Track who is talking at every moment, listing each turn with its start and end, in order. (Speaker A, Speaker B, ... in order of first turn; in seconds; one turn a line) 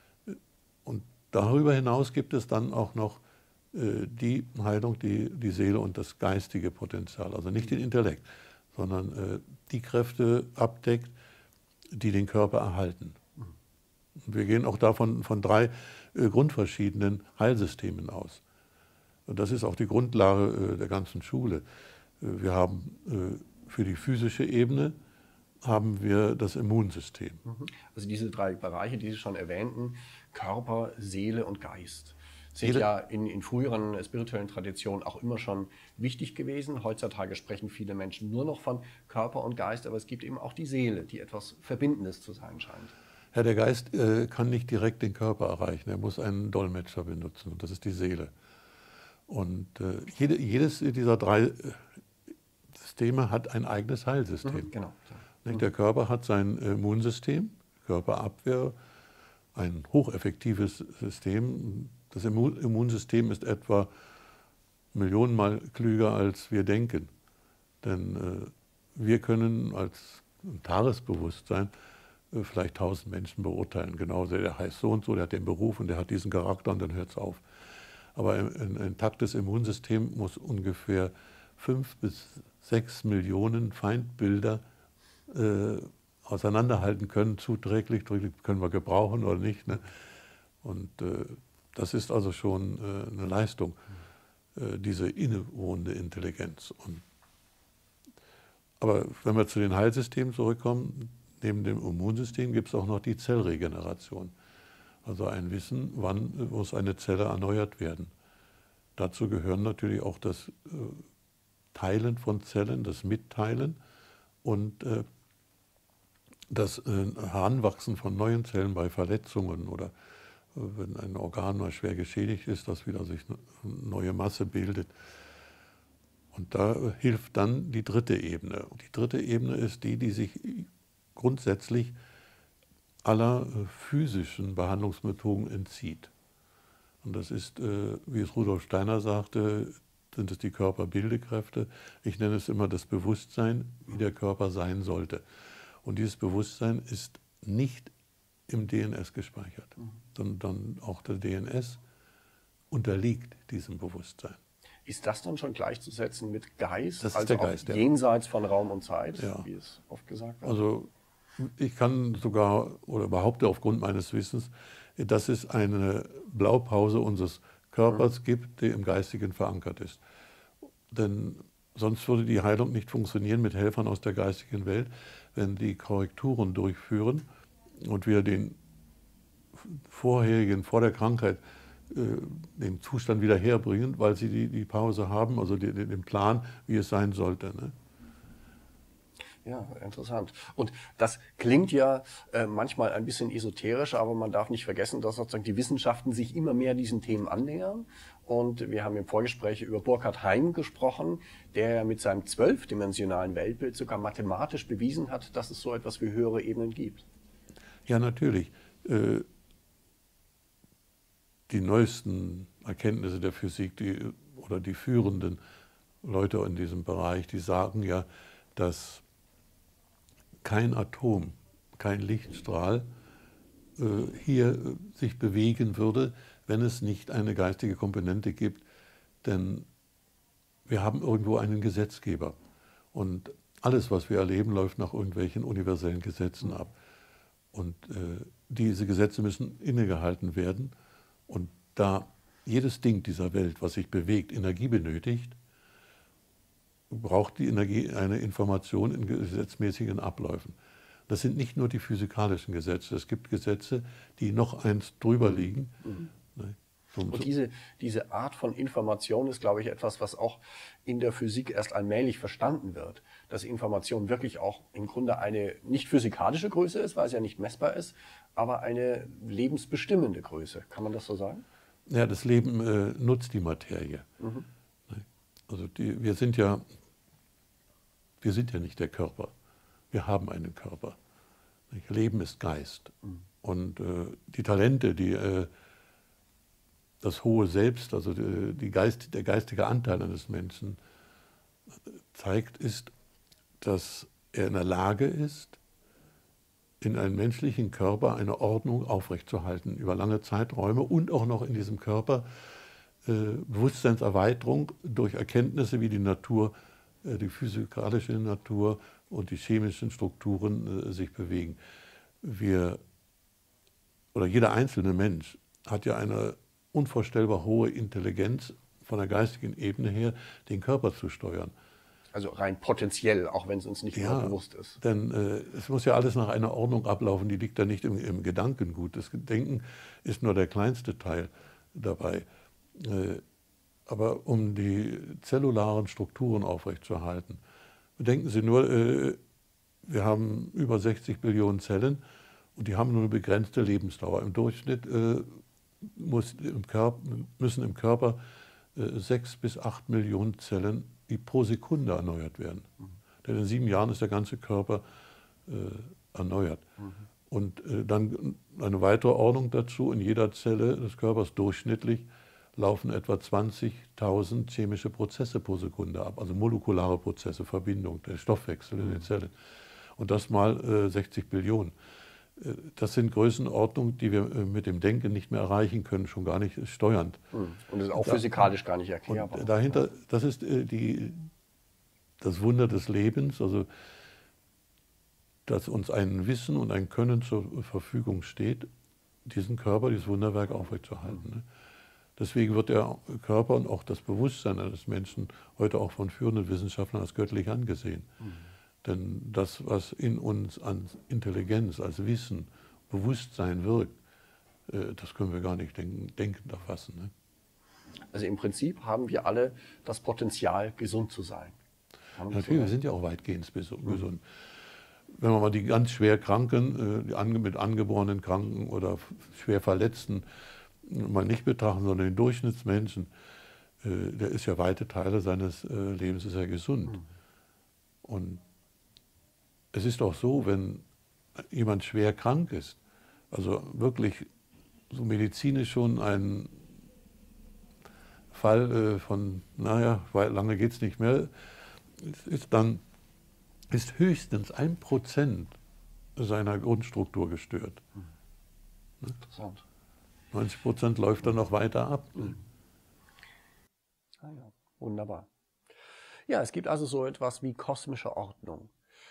Speaker A: 0.3-11.1
Speaker A: 11.9-13.2
Speaker A: 14.2-18.4
Speaker A: 19.3-21.6
Speaker A: 22.2-24.9
Speaker A: 25.6-27.4
Speaker B: 27.4-42.9
Speaker A: 43.3-48.3
Speaker A: 49.3-51.9
Speaker A: 52.7-54.7
Speaker B: 54.4-55.6
Speaker A: 55.4-58.7
Speaker A: 59.5-63.9
Speaker A: 64.9-67.1
Speaker A: 67.8-71.7
Speaker A: 72.3-77.4
Speaker A: 78.1-84.6
Speaker A: 85.3-90.1
Speaker A: 90.6-93.8
Speaker A: 94.5-97.0
Speaker A: 98.8-104.3
Speaker A: 105.0-108.1
Speaker A: 109.0-111.0
Speaker A: 111.7-113.8
Speaker A: 114.4-115.0
Speaker A: 116.5-119.9
Speaker A: 120.5-124.9
Speaker A: 126.3-131.9
Speaker A: 133.0-136.1
Speaker A: 137.0-145.2
Speaker A: 145.8-147.9
Speaker A: 148.5-151.8
Speaker A: 152.7-154.4
Speaker B: 154.8-160.6
Speaker A: 157.0-157.9
Speaker A: 159.2-159.4
Speaker A: 160.4-170.0
Speaker A: 170.9-177.2
Speaker A: 177.8-178.6
Speaker A: 179.5-187.7
Speaker B: 189.4-207.0
Speaker A: 207.9-209.2
Speaker A: 211.5-215.4
Speaker A: 216.0-219.0
Speaker A: 220.4-222.8
Speaker A: 223.8-228.6
Speaker A: 229.2-229.7
Speaker A: 230.7-232.4
Speaker A: 232.9-236.7
Speaker A: 237.5-240.7
Speaker A: 241.3-245.4
Speaker A: 246.9-250.6
Speaker A: 251.1-255.8
Speaker B: 255.3-256.1
Speaker A: 256.3-257.3
Speaker B: 257.1-271.4
Speaker A: 271.9-274.1
Speaker B: 274.2-274.5
Speaker A: 274.9-276.6
Speaker A: 278.2-279.3
Speaker A: 279.9-281.0
Speaker A: 281.7-285.5
Speaker A: 287.0-290.8
Speaker A: 291.9-292.9
Speaker A: 293.6-295.6
Speaker A: 296.8-302.3
Speaker A: 303.0-311.6
Speaker A: 312.2-312.8
Speaker A: 314.1-321.5
Speaker B: 322.1-324.8
Speaker A: 323.9-333.2
Speaker A: 333.9-337.4
Speaker A: 338.0-339.2
Speaker A: 339.8-342.0
Speaker A: 342.6-348.2
Speaker A: 348.7-352.7
Speaker A: 353.2-354.8
Speaker A: 355.4-356.6
Speaker A: 357.3-369.3
Speaker A: 369.9-371.7
Speaker A: 372.4-377.2
Speaker B: 377.3-379.8
Speaker A: 377.9-378.3
Speaker A: 379.1-381.3
Speaker A: 382.2-383.7
Speaker A: 385.4-388.7
Speaker A: 389.2-391.5
Speaker A: 392.2-398.1
Speaker A: 398.8-403.9
Speaker A: 404.7-407.1
Speaker B: 408.1-411.6
Speaker B: 412.2-412.7
Speaker A: 412.3-414.2
Speaker A: 415.1-420.2
Speaker A: 420.8-423.1
Speaker A: 423.8-427.0
Speaker A: 428.0-428.4
Speaker A: 429.7-430.8
Speaker A: 431.4-432.8
Speaker A: 433.3-434.3
Speaker A: 434.9-436.7
Speaker A: 438.3-441.3
Speaker A: 441.9-442.8
Speaker A: 443.7-445.6
Speaker A: 446.1-447.8
Speaker B: 449.2-449.6
Speaker A: 450.3-452.4
Speaker B: 454.2-455.3
Speaker B: 456.3-458.7